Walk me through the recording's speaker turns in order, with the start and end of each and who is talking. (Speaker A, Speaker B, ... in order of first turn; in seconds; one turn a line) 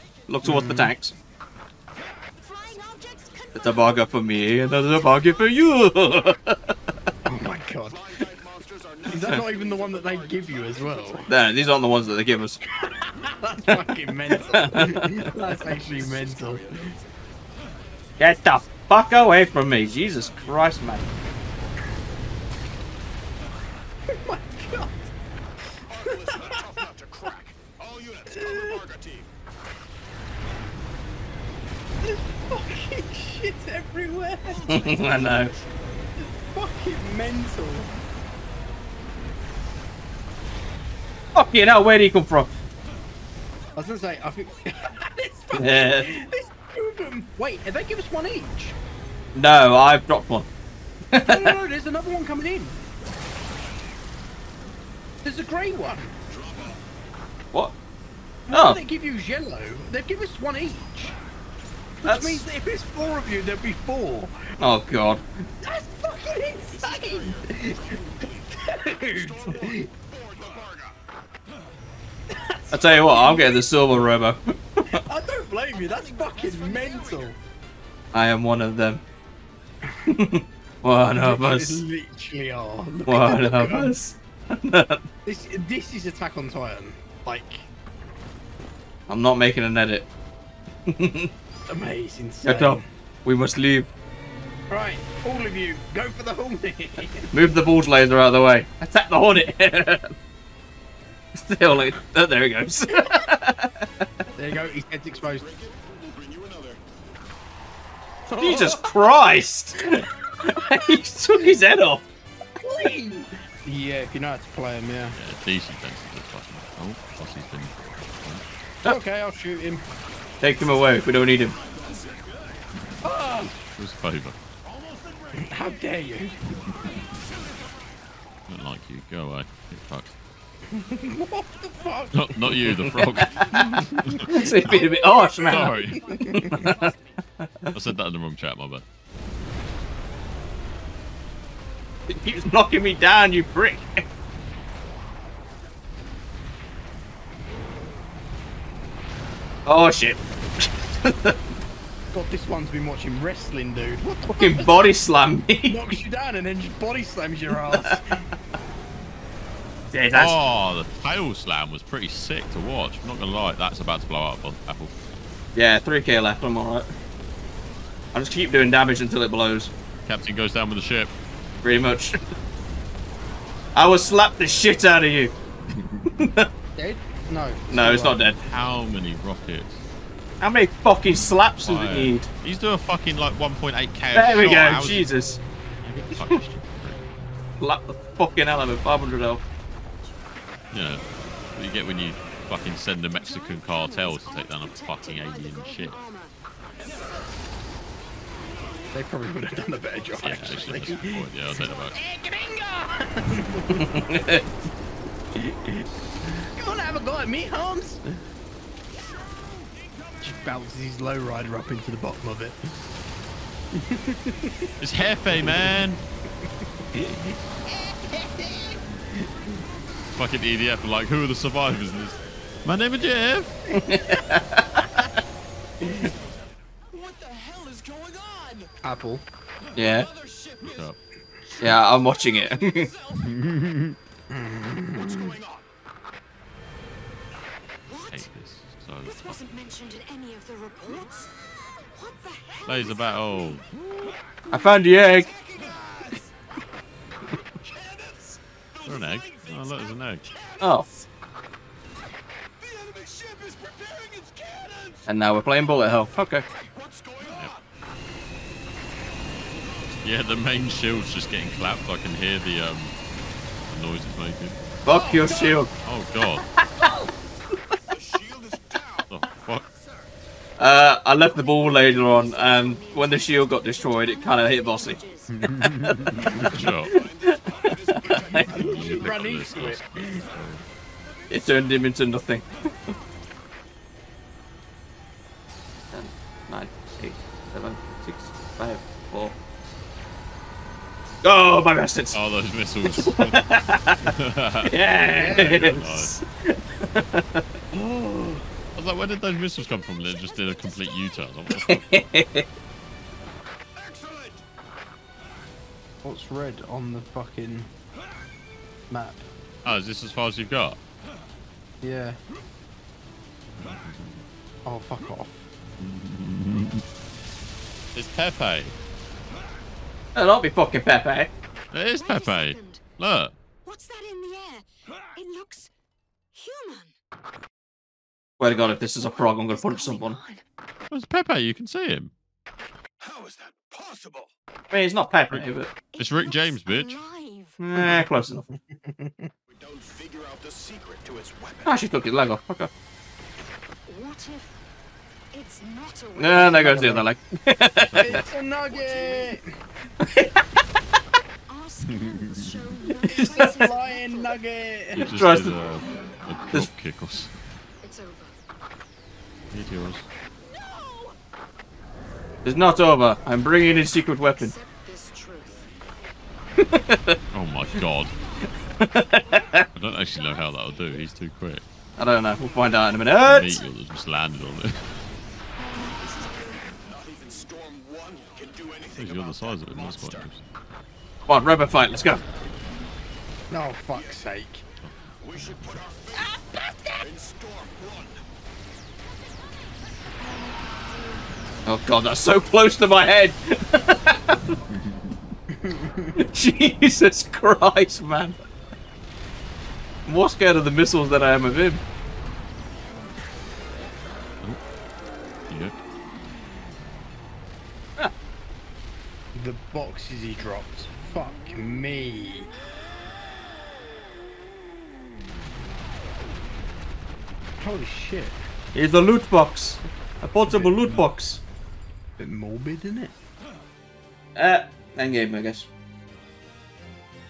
Speaker A: 0.3-1.1
Speaker B: 0.4-0.9
Speaker C: 2.4-3.6
Speaker A: 3.5-6.7
Speaker B: 7.2-8.1
Speaker D: 8.4-9.0
Speaker B: 9.1-11.3
Speaker A: 11.3-12.6
Speaker B: 12.8-16.9
Speaker A: 14.3-15.2
Speaker A: 18.2-21.1
Speaker B: 24.1-24.9
Speaker B: 25.8-26.8
Speaker D: 27.8-28.2
Speaker B: 28.2-28.9
Speaker D: 28.9-29.2
Speaker B: 32.0-35.4
Speaker A: 34.7-35.5
Speaker B: 36.2-37.9
Speaker A: 41.3-42.5
Speaker B: 43.7-48.8
Speaker A: 45.5-46.1
Speaker A: 49.3-50.5
Speaker A: 51.1-51.5
Speaker B: 51.2-52.8
Speaker B: 55.2-56.2
Speaker B: 58.5-61.1
Speaker A: 58.5-58.8
Speaker B: 62.0-64.4
Speaker A: 62.0-62.4
Speaker A: 64.6-65.2
Speaker B: 65.6-67.9
Speaker B: 68.5-69.9
Speaker D: 70.1-70.9
Speaker B: 72.3-73.6
Speaker A: 72.7-74.8
Speaker B: 75.0-77.4
Speaker A: 78.1-79.0
Speaker A: 80.1-81.8
Speaker B: 81.2-83.9
Speaker A: 83.0-85.0
Speaker B: 85.2-87.7
Speaker A: 89.1-90.1
Speaker A: 90.9-91.3
Speaker B: 91.7-92.9
Speaker A: 92.4-93.9
Speaker B: 94.7-97.3
Speaker A: 97.3-100.1
Speaker A: 101.3-103.8
Speaker B: 104.3-105.5
Speaker D: 105.6-106.8
Speaker B: 108.3-108.8
Speaker A: 108.4-112.0
Speaker B: 112.6-115.2
Speaker E: 115.2-117.7
Speaker B: 118.8-119.8
Speaker A: 120.4-121.6
Speaker B: 123.0-123.5
Speaker E: 123.7-124.3
Speaker B: 125.3-126.4
Speaker E: 128.5-130.1
Speaker B: 130.7-132.7
Speaker E: 132.1-134.5
Speaker A: 132.8-136.9
Speaker D: 132.9-133.4
Speaker B: 133.8-136.6
Speaker E: 135.5-136.0
Speaker A: 137.4-137.7
Speaker E: 137.7-138.8
Speaker A: 142.1-144.0
Speaker A: 149.7-151.3
Speaker B: 152.1-154.9
Speaker A: 154.3-155.8
Speaker B: 155.7-158.2
Speaker A: 159.9-160.4
Speaker E: 160.2-164.9
Speaker A: 165.5-166.9
Speaker A: 168.1-169.7
Speaker E: 170.1-171.1
Speaker A: 171.6-172.2
Speaker A: 173.7-175.3
Speaker A: 176.2-176.5
Speaker B: 176.8-178.2
Speaker A: 177.7-178.4
Speaker E: 178.6-179.8
Speaker A: 180.4-182.3
Speaker E: 181.7-185.1
Speaker A: 184.1-185.4
Speaker E: 185.8-187.0
Speaker A: 187.6-189.4
Speaker D: 191.6-192.4
Speaker E: 191.6-195.9
Speaker C: 193.1-196.3
Speaker D: 193.3-195.6
Speaker B: 198.9-203.9
Speaker E: 200.2-201.9
Speaker D: 200.5-201.9
Speaker A: 203.8-204.4
Speaker B: 205.3-205.8
Speaker B: 206.4-208.0
Speaker B: 210.2-212.7
Speaker B: 213.7-214.7
Speaker E: 214.8-216.0
Speaker B: 215.3-215.8
Speaker B: 216.9-218.7
Speaker E: 220.2-222.1
Speaker D: 221.5-222.2
Speaker E: 222.7-223.5
Speaker D: 222.8-223.4
Speaker A: 223.7-225.1
Speaker B: 223.8-224.2
Speaker D: 227.2-228.6
Speaker B: 228.8-229.2
Speaker A: 229.7-230.1
Speaker D: 230.3-230.9
Speaker A: 231.6-232.9
Speaker E: 233.4-233.9
Speaker B: 234.3-235.4
Speaker D: 235.3-235.6
Speaker C: 237.9-238.2
Speaker E: 238.1-239.4
Speaker C: 239.0-241.3
Speaker C: 241.9-243.5
Speaker E: 242.7-243.2
Speaker D: 242.9-243.6
Speaker A: 244.5-245.3
Speaker D: 245.6-246.1
Speaker D: 247.9-250.2
Speaker E: 248.9-250.2
Speaker A: 250.6-250.9
Speaker D: 252.7-254.9
Speaker A: 255.1-256.4
Speaker D: 256.8-257.5
Speaker E: 260.0-262.9
Speaker D: 260.3-261.8
Speaker E: 263.7-264.4
Speaker A: 264.8-265.7
Speaker B: 264.9-265.6
Speaker E: 265.9-266.4
Speaker D: 268.1-269.4
Speaker E: 269.1-269.6
Speaker A: 270.6-275.0
Speaker C: 271.4-275.5
Speaker A: 275.5-278.6
Speaker E: 275.7-276.9
Speaker D: 276.5-277.1
Speaker D: 277.6-280.4
Speaker B: 278.1-280.3
Speaker E: 278.5-280.6
Speaker A: 281.3-282.5
Speaker A: 285.9-289.4
Speaker A: 291.2-292.2
Speaker E: 292.2-293.4
Speaker A: 292.8-294.1
Speaker E: 294.2-294.5
Speaker A: 294.7-297.4
Speaker B: 295.1-295.6
Speaker E: 295.3-296.0
Speaker B: 297.7-298.4
Speaker E: 298.8-301.6
Speaker D: 300.1-301.4
Speaker A: 301.5-302.4
Speaker D: 303.8-304.4
Speaker B: 306.0-307.7
Speaker B: 308.9-309.3
Speaker E: 309.6-310.8
Speaker B: 311.8-312.2
Speaker B: 314.6-315.5
Speaker E: 315.8-316.8
Speaker E: 317.9-318.7
Speaker A: 320.1-321.3
Speaker E: 321.7-323.3
Speaker D: 321.9-322.5
Speaker C: 322.0-322.9
Speaker C: 323.6-325.7
Speaker C: 326.3-326.9
Speaker A: 328.4-330.2
Speaker C: 329.0-330.4
Speaker E: 330.9-332.1
Speaker D: 333.1-334.2
Speaker A: 334.7-335.7
Speaker C: 335.9-337.6
Speaker E: 336.0-336.9
Speaker D: 336.2-336.6
Speaker A: 337.6-338.5
Speaker B: 338.7-339.3
Speaker D: 339.6-341.6
Speaker A: 341.6-342.7
Speaker C: 343.9-344.6
Speaker C: 345.3-346.8
Speaker A: 346.2-348.2
Speaker B: 346.3-347.1
Speaker B: 348.0-349.5
Speaker C: 349.0-349.3
Speaker A: 350.0-350.4
Speaker C: 351.5-354.4
Speaker E: 352.0-352.4
Speaker B: 353.1-355.2
Speaker E: 355.0-357.3
Speaker A: 355.1-355.6
Speaker C: 357.8-358.4
Speaker E: 359.5-360.0
Speaker C: 360.4-361.1
Speaker A: 362.4-364.5
Speaker C: 364.4-365.7
Speaker A: 366.6-367.2
Speaker E: 367.3-368.1
Speaker A: 368.8-369.6
Speaker D: 369.8-371.2
Speaker E: 369.9-371.6
Speaker C: 370.4-370.9
Speaker A: 372.0-373.6
Speaker D: 373.3-374.3
Speaker E: 373.4-374.6
Speaker C: 375.6-376.7
Speaker D: 377.0-380.4
Speaker E: 378.9-380.3
Speaker A: 381.3-382.2
Speaker B: 383.5-384.6
Speaker D: 385.2-386.1
Speaker E: 385.3-385.8
Speaker B: 386.3-387.0
Speaker D: 387.1-388.2
Speaker A: 391.6-394.5
Speaker B: 395.5-396.1
Speaker A: 396.1-398.4
Speaker A: 400.1-401.8
Speaker B: 409.3-412.5
Speaker B: 417.6-418.4
Speaker A: 418.7-421.4
Speaker B: 420.5-421.0
Speaker B: 422.2-423.1
Speaker A: 424.4-425.7